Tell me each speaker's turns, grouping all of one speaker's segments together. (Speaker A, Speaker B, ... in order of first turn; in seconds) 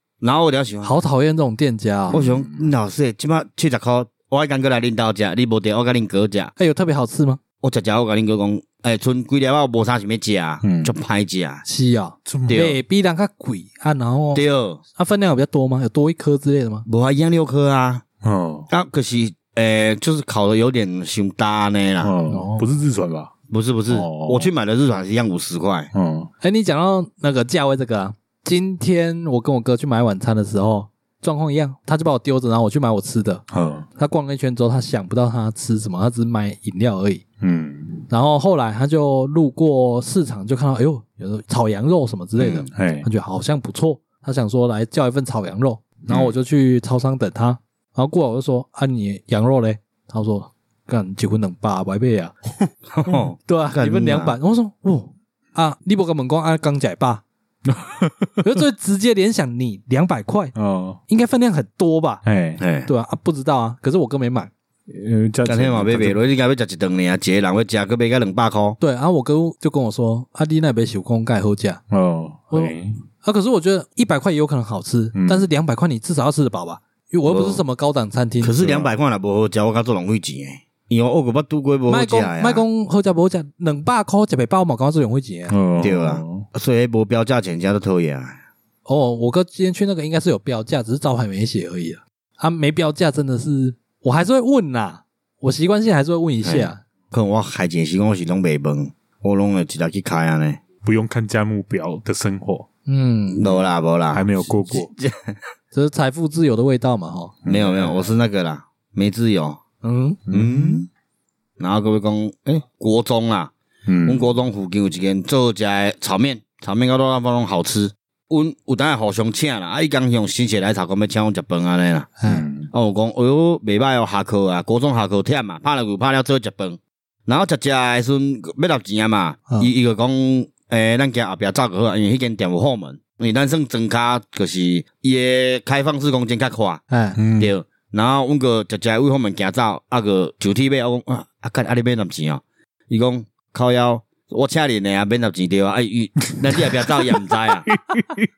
Speaker A: 0.2-1.0, 2.1-6.5, 7.6-11.6, 12.5-12.8, 14.3-14.8, 16.9-18.0, 18.7-22.1, 23.5-25.9, 42.4-42.7, 52.9-54.4, 62.6-62.9, 65.5-68.8, 77.2-77.6, 78.4-82.6, 85.8-88.4, 96.4-100.6, 103.3-105.4, 107.5-109.6, 110.3-110.9, 111.6-113.5, 114.0-122.2, 122.7-136.8, 137.4-147.7
Speaker B: 0.8-2.2, 6.6-7.4, 11.6-16.9, 22.3-22.7, 26.4-33.4, 34.0-37.2, 38.1-52.3, 53.5-57.2, 58.4-60.5, 61.1-62.2, 62.9-64.5, 68.8-71.8, 72.5-78.6, 81.9-85.5, 88.8-96.8, 102.9-103.5, 105.7-107.3, 109.8-110.2, 122.2-122.5, 136.9-137.2
Speaker C: 2.1-2.7, 10.6-10.9, 12.2-12.7, 18.2-18.7, 22.0-23.3, 23.9-24.5, 25.9-26.3, 33.5-33.9, 37.4-38.0, 42.7-43.1, 46.1-46.3, 57.7-58.6, 60.5-61.0, 62.2-62.6, 64.9-66.2, 71.9-73.0, 75.1-75.5, 78.6-78.9, 85.5-86.4, 100.8-102.7, 104.1-104.9, 107.4-108.1, 110.3-110.8, 113.9-114.3, 122.3-122.7, 137.2-137.5, 147.7-148.3